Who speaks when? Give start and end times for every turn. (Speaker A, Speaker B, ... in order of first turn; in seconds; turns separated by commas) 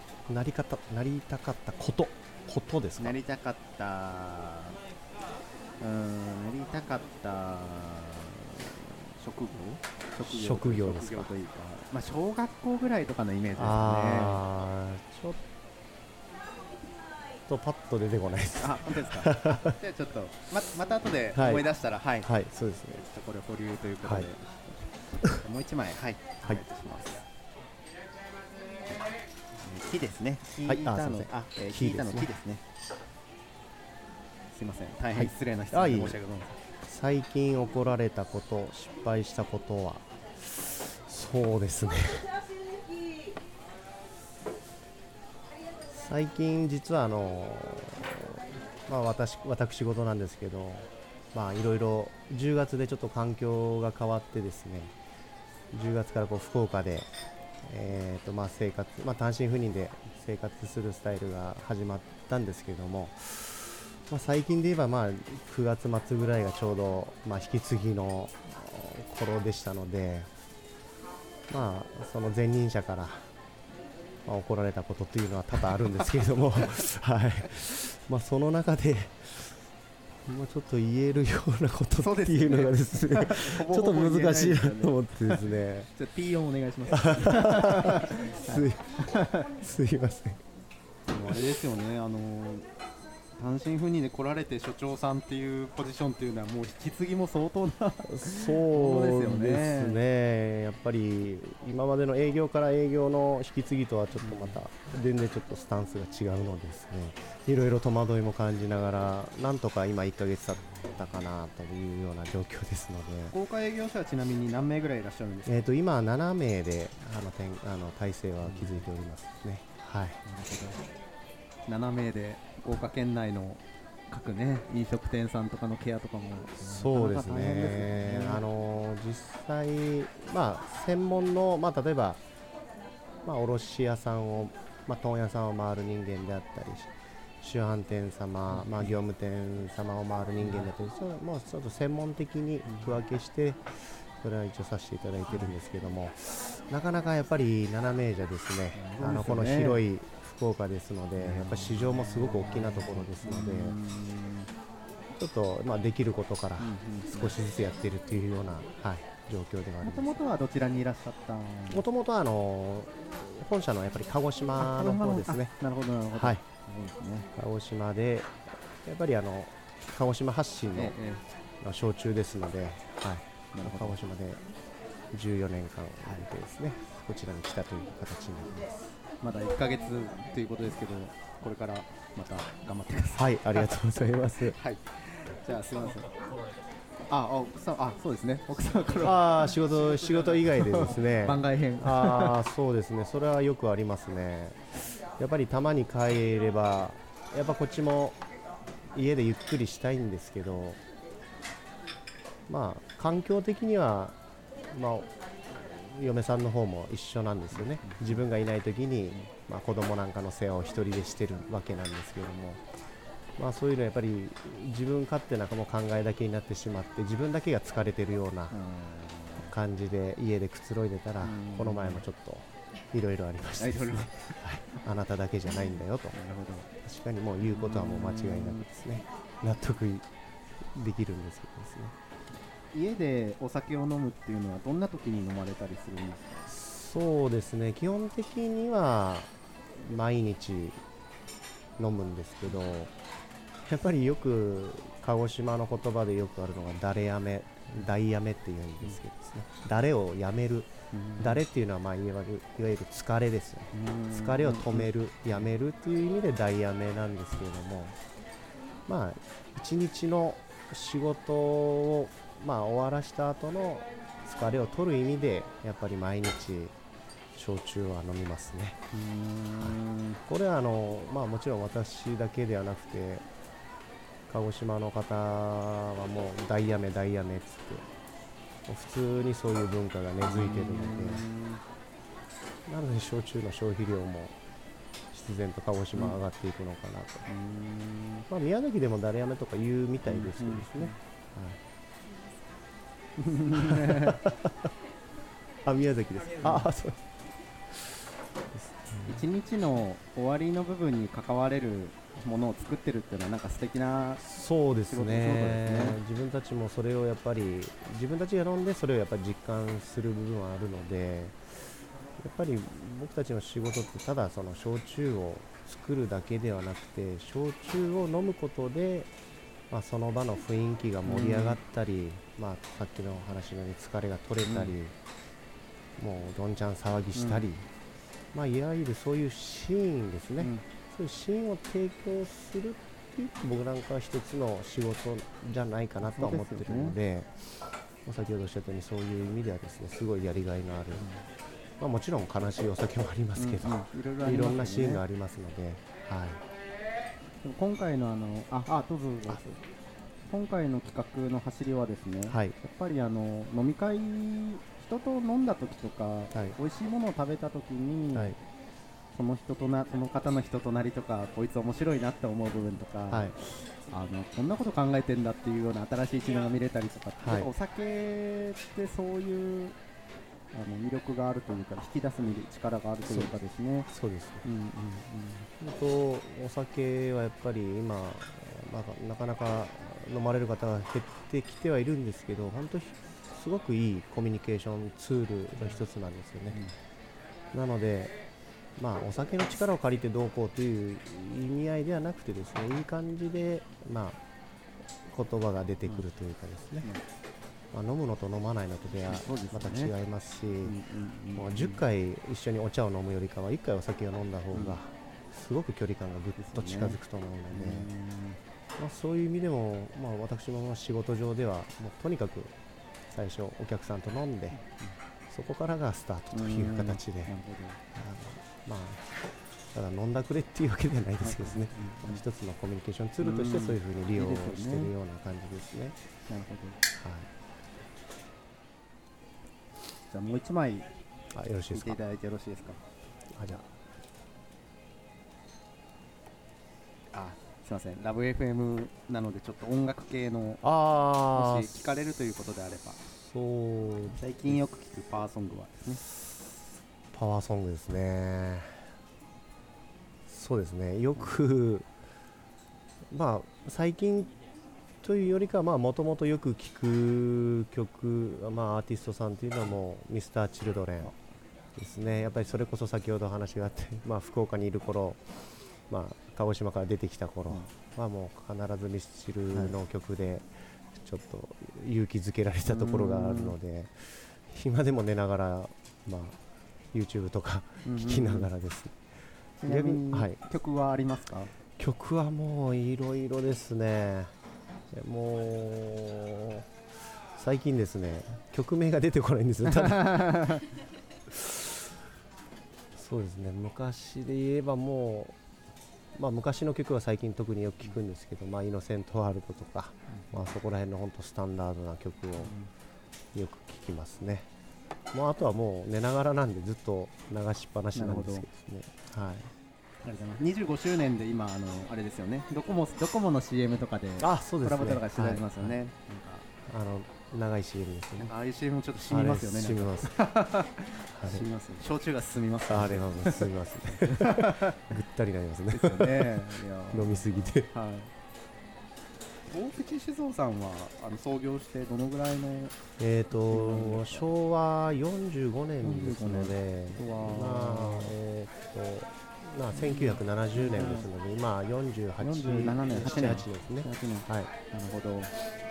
Speaker A: 0.3-3.2, Speaker B: 3.0-4.8, Speaker B: 5.8-14.4, Speaker A: 10.2-11.3, Speaker A: 13.6-15.4, Speaker A: 17.5-19.8, Speaker B: 18.6-22.3, Speaker A: 21.4-21.7, Speaker A: 22.2-23.0, Speaker B: 22.9-24.9, Speaker A: 24.0-24.3, Speaker B: 25.4-27.2, Speaker B: 29.6-32.6, Speaker A: 30.6-32.3, Speaker B: 34.5-36.6, Speaker A: 35.1-36.2, Speaker A: 36.8-42.3, Speaker A: 45.9-54.9, Speaker A: 55.7-57.1, Speaker A: 57.6-70.3, Speaker A: 71.5-73.3, Speaker A: 74.2-79.6, Speaker A: 80.3-85.9, Speaker B: 82.0-88.7, Speaker A: 87.0-90.4, Speaker B: 91.1-92.7, Speaker B: 93.4-100.0, Speaker A: 98.0-113.3, Speaker B: 104.2-104.6, Speaker B: 113.3-115.7, Speaker A: 115.5-120.2, Speaker B: 118.4-118.9, Speaker B: 120.2-120.8, Speaker B: 121.7-128.4, Speaker A: 126.6-132.2, Speaker A: 133.2-153.8, Speaker B: 138.5-138.9, Speaker B: 142.7-143.0, Speaker B: 145.3-145.6, Speaker B: 148.7-149.8, Speaker B: 151.2-154.5, Speaker A: 155.2-160.1, Speaker B: 156.6-157.3, Speaker B: 159.8-161.9, Speaker A: 161.7-165.5, Speaker B: 164.6-167.3, Speaker A: 166.2-166.4, Speaker A: 167.3-171.0, Speaker B: 170.8-171.2, Speaker A: 171.6-174.4, Speaker B: 173.5-174.0, Speaker A: 175.1-178.9, Speaker B: 179.2-183.8, Speaker A: 183.1-184.6, Speaker B: 184.4-186.1, Speaker B: 187.1-189.3, Speaker A: 189.0-198.2, Speaker B: 190.4-192.4, Speaker A: 198.9-200.8, Speaker A: 202.5-204.2, Speaker A: 204.7-212.7, Speaker B: 207.8-208.2, Speaker A: 213.4-218.5, Speaker B: 218.5-219.5, Speaker A: 219.5-226.2, Speaker B: 221.2-222.0, Speaker B: 223.6-224.4, Speaker B: 226.1-226.7, Speaker A: 226.7-230.1, Speaker B: 227.5-228.7, Speaker A: 230.7-231.9, Speaker B: 232.7-236.5, Speaker A: 236.5-240.8, Speaker A: 241.8-242.9, Speaker A: 243.7-258.0, Speaker B: 250.9-251.4, Speaker B: 253.7-254.9, Speaker A: 258.9-266.8, Speaker A: 267.4-268.8, Speaker B: 268.9-270.2, Speaker A: 269.6-273.3, Speaker A: 274.3-277.9, Speaker A: 278.7-281.3, Speaker B: 280.2-281.6, Speaker A: 282.7-284.4, Speaker A: 285.1-287.2, Speaker B: 287.3-288.3, Speaker A: 288.3-291.6, Speaker B: 290.1-291.0, Speaker B: 293.2-294.2, Speaker A: 293.6-294.7, Speaker A: 295.6-297.1, Speaker B: 296.4-296.7, Speaker A: 297.7-299.2, Speaker B: 299.1-304.2, Speaker A: 304.2-311.7, Speaker B: 304.9-306.0, Speaker A: 312.2-319.1, Speaker A: 319.7-324.9, Speaker B: 321.1-321.6, Speaker B: 324.5-324.8, Speaker A: 326.0-327.7, Speaker B: 327.1-327.5, Speaker A: 328.3-341.1, Speaker B: 330.4-330.6, Speaker B: 336.0-337.0, Speaker B: 340.9-341.2, Speaker A: 341.8-346.4, Speaker B: 343.4-345.0, Speaker B: 347.4-349.6, Speaker A: 349.3-349.6, Speaker B: 350.3-358.4, Speaker A: 352.3-352.6, Speaker B: 359.1-369.8, Speaker A: 363.1-363.4, Speaker A: 367.2-367.5, Speaker B: 370.5-373.9, Speaker A: 373.1-373.3, Speaker A: 373.9-374.4, Speaker B: 374.4-375.5, Speaker A: 375.6-386.6, Speaker A: 387.5-388.2, Speaker A: 388.8-394.2, Speaker A: 395.1-396.9, Speaker A: 397.7-400.8, Speaker B: 399.1-399.9, Speaker B: 400.6-401.8, Speaker A: 401.3-407.9, Speaker B: 404.5-404.8, Speaker B: 406.4-407.0, Speaker B: 407.5-408.4, Speaker A: 408.8-412.5, Speaker A: 413.1-414.6, Speaker B: 414.6-414.9, Speaker A: 415.3-417.3, Speaker B: 416.3-417.8, Speaker A: 417.9-419.1, Speaker A: 419.7-426.0, Speaker B: 421.2-422.2, Speaker B: 423.2-424.9, Speaker B: 426.3-426.8, Speaker A: 427.0-427.3, Speaker B: 430.1-430.9, Speaker A: 431.3-432.0, Speaker B: 431.7-432.8, Speaker A: 433.4-433.7, Speaker B: 437.1-440.6, Speaker A: 440.6-441.8, Speaker B: 441.3-443.1, Speaker A: 443.2-444.6, Speaker B: 444.2-446.0, Speaker A: 447.1-448.9, Speaker A: 450.3-451.9, Speaker A: 453.1-454.3, Speaker A: 455.0-461.1, Speaker A: 461.8-465.2, Speaker A: 465.9-476.4, Speaker B: 472.7-473.6, Speaker A: 476.9-479.0, Speaker B: 477.9-478.5, Speaker B: 479.6-481.5, Speaker A: 479.7-480.4, Speaker A: 481.8-484.3, Speaker A: 484.9-486.7, Speaker A: 487.4-490.6, Speaker B: 490.0-490.6, Speaker A: 491.3-491.9, Speaker A: 492.9-495.4, Speaker A: 496.1-502.5, Speaker B: 500.1-500.4, Speaker B: 502.4-502.7, Speaker A: 503.3-504.5, Speaker A: 505.1-509.5, Speaker B: 507.9-508.5, Speaker B: 510.0-516.5, Speaker A: 514.2-515.8, Speaker A: 516.7-518.3, Speaker B: 518.2-524.8, Speaker A: 519.0-520.2, Speaker A: 521.1-521.5, Speaker A: 522.7-527.7, Speaker B: 525.7-528.1, Speaker B: 529.5-532.8, Speaker A: 533.0-544.5, Speaker B: 533.5-534.2, Speaker B: 535.8-538.1, Speaker B: 539.7-541.1, Speaker B: 542.2-545.3